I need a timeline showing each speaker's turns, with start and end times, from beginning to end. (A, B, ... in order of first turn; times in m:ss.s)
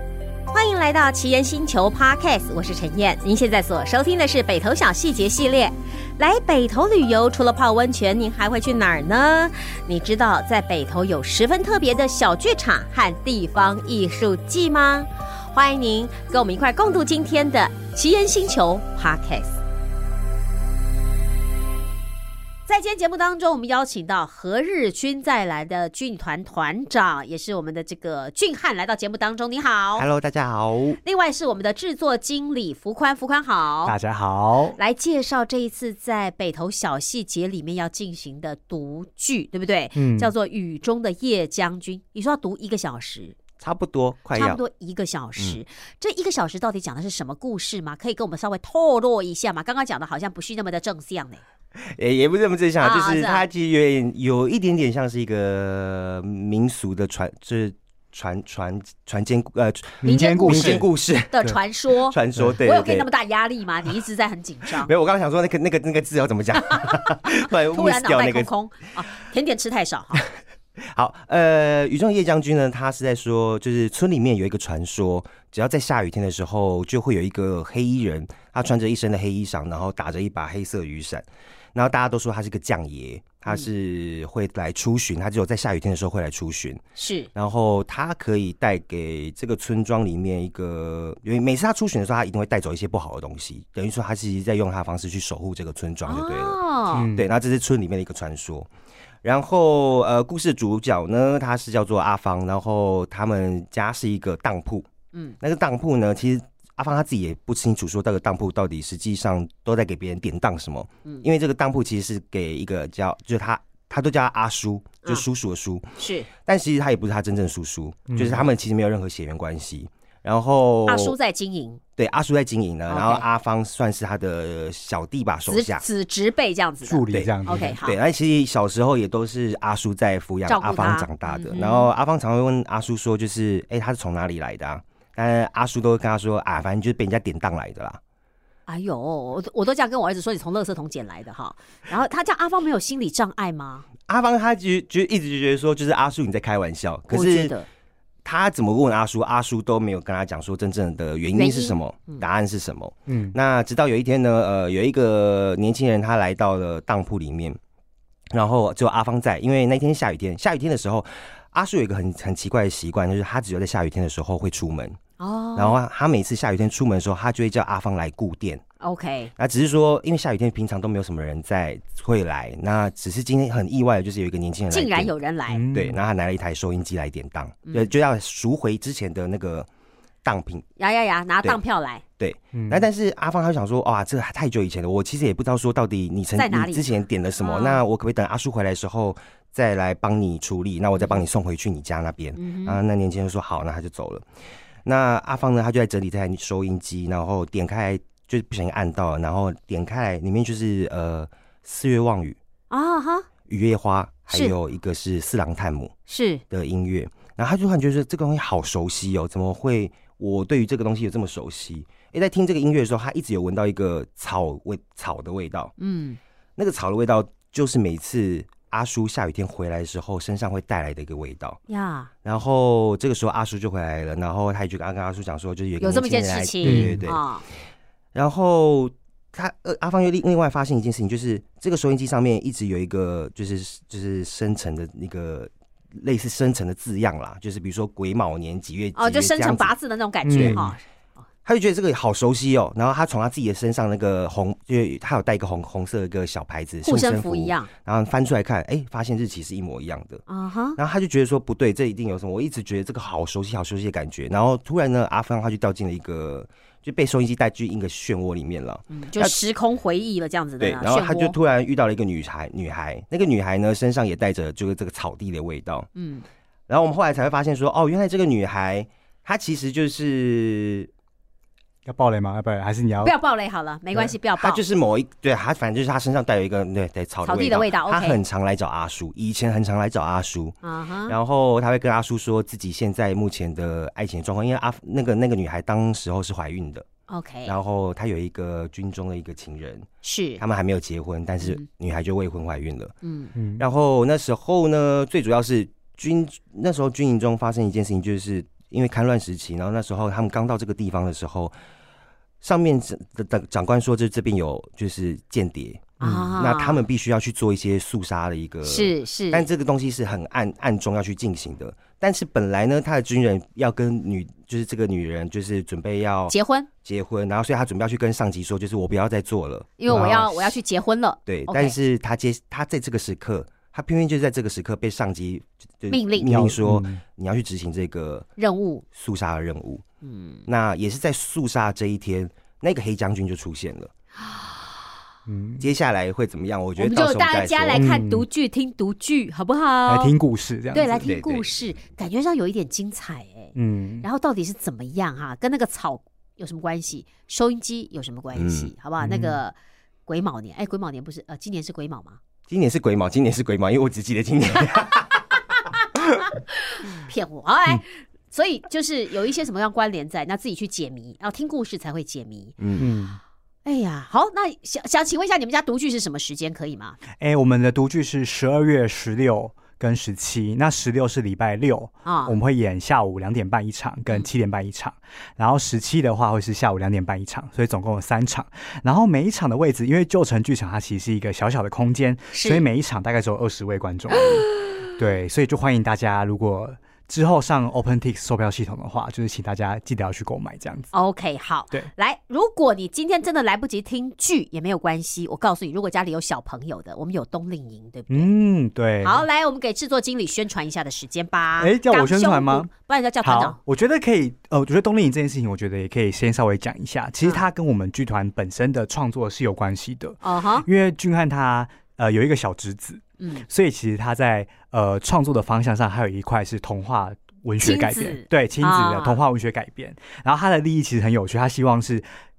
0:00.5-0:19.6 A
0:22.7-0:30.0 A
0:30.0-0:31.0 B
0:31.0-0:34.0 A
0:33.9-0:34.8 C
0:34.8-0:43.4 A
0:40.0-0:40.3 C
0:43.6-0:44.6 B
0:44.4-0:51.4 A
0:51.8-1:01.4 B
0:52.8-0:53.5 A
1:00.0-1:00.9 C
1:00.0-1:04.9 A
1:02.1-1:03.1 B
1:04.8-1:08.5 B
1:06.6-1:10.2 A
1:10.9-1:26.8 B
1:27.0-1:27.3 A
1:27.3-1:38.7 B
1:36.1-1:37.1 A
1:36.9-1:37.3 C
1:39.2-1:44.9 B
1:45.4-2:01.2 B
1:56.0-1:56.3 A
1:58.1-1:58.5 C
2:00.9-2:01.8 A
2:02.0-2:05.8 B
2:02.9-2:03.2 A
2:05.5-2:08.0 A
2:06.8-2:07.8 C
2:07.1-2:18.0 B
2:10.5-2:11.9 A
2:18.7-2:23.9 A
2:24.1-2:27.6 B
2:27.1-2:27.7 A
2:28.2-2:37.6 B
2:31.3-2:32.2 A
2:33.1-2:33.4 C
2:38.3-2:45.0 B
2:45.2-2:45.8 A
2:45.6-2:48.6 B
2:48.8-2:49.3 A
2:49.4-2:55.1 B
2:54.7-2:55.6 A
2:55.5-2:56.0 C
2:55.7-2:59.7 B
3:00.2-3:00.6 B
3:00.8-3:02.0 A
3:02.2-3:14.2 B
3:02.5-3:02.9 C
3:06.4-3:06.9 A
3:07.4-3:07.8 A
3:11.0-3:11.2 A
3:12.4-3:12.8 A
3:14.8-3:22.4 B
3:22.7-3:23.3 A
3:23.5-3:25.9 B
3:24.3-3:24.6 A
3:26.1-3:26.4 A
3:26.5-3:35.7 B
3:35.8-3:36.2 A
3:36.6-3:41.6 B
3:41.7-3:42.1 A
3:42.2-3:47.2 B
3:45.8-3:47.4 A
3:46.6-3:47.0 C
3:48.1-3:59.8 B
3:59.0-4:00.8 A
4:00.2-4:00.8 C
4:00.4-4:00.6 B
4:01.4-4:10.2 B
4:06.8-4:07.7 A
4:10.3-4:10.8 A
4:10.8-4:19.4 B
4:18.9-4:21.4 A
4:20.6-4:25.9 B
4:26.0-4:26.2 A
4:26.7-4:30.9 B
4:31.9-4:33.2 C
4:33.0-4:34.6 A
4:33.9-4:40.6 B
4:37.2-4:38.2 A
4:40.6-4:41.2 A
4:41.1-4:46.8 B
4:47.1-4:47.5 A
4:47.5-4:49.9 B
4:50.0-4:50.4 A
4:50.4-4:52.9 B
4:53.0-4:53.3 A
4:53.4-4:53.6 C
4:53.6-5:01.5 B
5:02.4-5:20.5 B
5:06.0-5:06.8 A
5:08.6-5:09.5 A
5:16.3-5:16.7 A
5:19.8-5:21.8 A
5:19.9-5:20.3 C
5:21.3-5:28.3 B
5:25.9-5:26.5 A
5:26.3-5:27.0 C
5:28.4-5:28.8 A
5:28.9-5:29.8 B
5:30.0-5:30.5 A
5:30.5-5:33.9 B
5:35.3-5:35.7 C
5:35.6-5:37.8 B
5:36.8-5:40.2 A
5:37.8-5:38.3 C
5:39.9-5:41.1 C
5:40.7-5:49.6 A
5:41.0-5:41.5 B
5:43.6-5:44.1 C
5:48.3-5:48.7 B
5:49.0-5:49.4 C
5:50.1-5:52.2 A
5:52.5-5:55.2 B
5:56.5-6:02.6 A
6:02.6-6:02.9 B
6:02.8-6:03.2 C
6:03.6-6:07.0 A
6:07.2-6:30.9 C
6:12.0-6:12.4 A
6:22.3-6:22.6 A
6:24.2-6:24.7 A
6:30.9-6:38.3 A
6:38.1-6:39.2 C
6:39.0-6:43.6 A
6:41.6-6:42.7 C
6:43.2-7:02.1 C
6:50.2-6:50.7 A
6:53.2-6:53.5 A
6:57.6-6:59.2 A